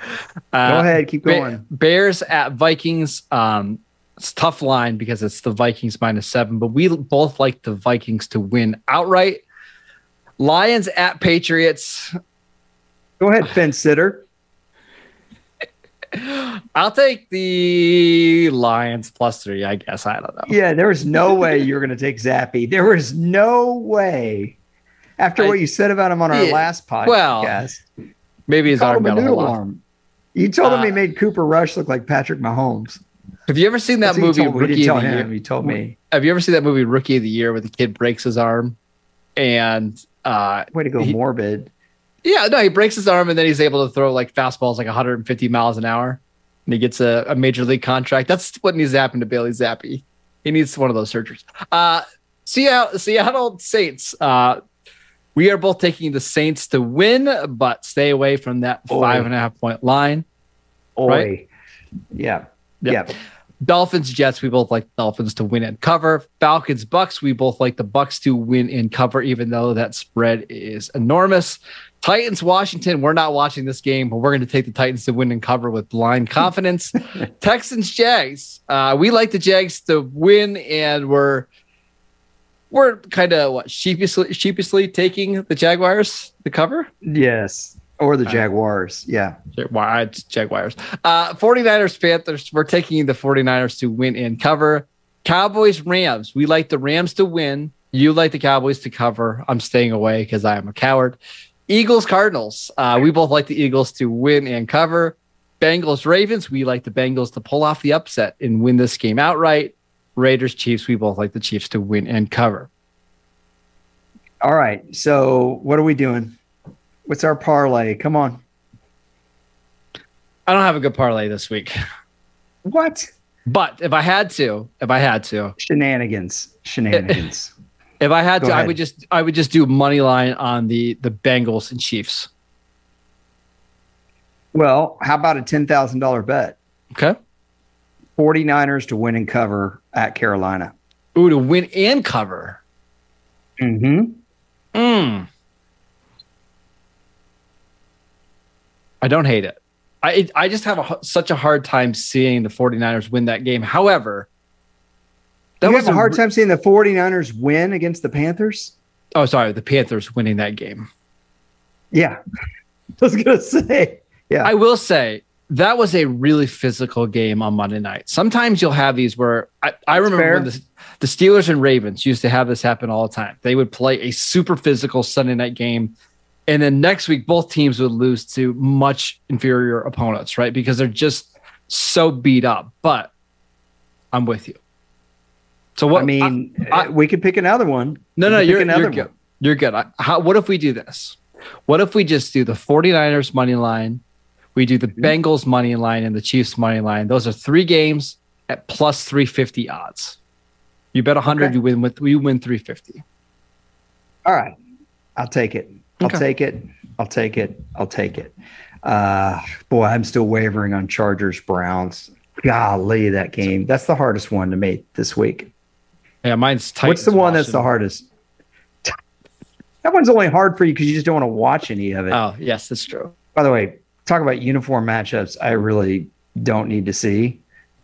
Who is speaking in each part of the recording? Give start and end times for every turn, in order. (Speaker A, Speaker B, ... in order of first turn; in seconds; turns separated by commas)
Speaker A: 0.5-9.4, Speaker B: 0.7-1.6, Speaker A: 10.4-12.1, Speaker B: 13.2-14.2, Speaker A: 16.1-20.6, Speaker B: 20.5-24.6, Speaker B: 25.2-27.8, Speaker A: 26.3-27.6, Speaker A: 28.5-29.6, Speaker B: 28.7-29.8, Speaker B: 30.4-33.0, Speaker A: 30.6-31.0, Speaker A: 33.5-38.8, Speaker B: 34.0-36.0, Speaker A: 39.4-41.1, Speaker B: 40.7-41.7, Speaker A: 42.2-54.6, Speaker A: 55.4-60.2, Speaker B: 58.9-59.3, Speaker B: 61.0-61.5, Speaker B: 62.1-63.1, Speaker A: 62.8-81.5, Speaker A: 82.7-86.9, Speaker B: 87.0-89.3, Speaker A: 89.5-112.7, Speaker B: 114.4-116.4, Speaker B: 117.1-118.4, Speaker A: 120.5-121.8, Speaker B: 122.7-123.1, Speaker A: 123.5-125.5, Speaker B: 125.6-127.5, Speaker A: 126.9-127.2, Speaker A: 128.0-132.3, Speaker B: 128.4-128.8, Speaker B: 134.5-136.6, Speaker B: 138.2-140.7, Speaker A: 141.2-142.6, Speaker B: 143.6-144.2, Speaker A: 144.7-145.3, Speaker A: 149.0-154.3, Speaker A: 155.6-156.2, Speaker B: 155.6-158.7, Speaker A: 159.2-160.9, Speaker B: 161.9-162.2, Speaker B: 163.0-164.5, Speaker A: 164.4-175.9, Speaker B: 169.9-170.5, Speaker A: 176.5-183.1, Speaker A: 184.1-184.6, Speaker A: 185.8-186.9, Speaker B: 185.9-189.1, Speaker A: 188.2-194.0, Speaker A: 194.6-200.2, Speaker A: 200.9-203.0, Speaker B: 204.3-204.6, Speaker B: 205.2-215.5, Speaker A: 216.2-217.7, Speaker B: 216.8-218.1, Speaker B: 219.8-222.2, Speaker A: 222.1-223.1, Speaker B: 223.3-227.4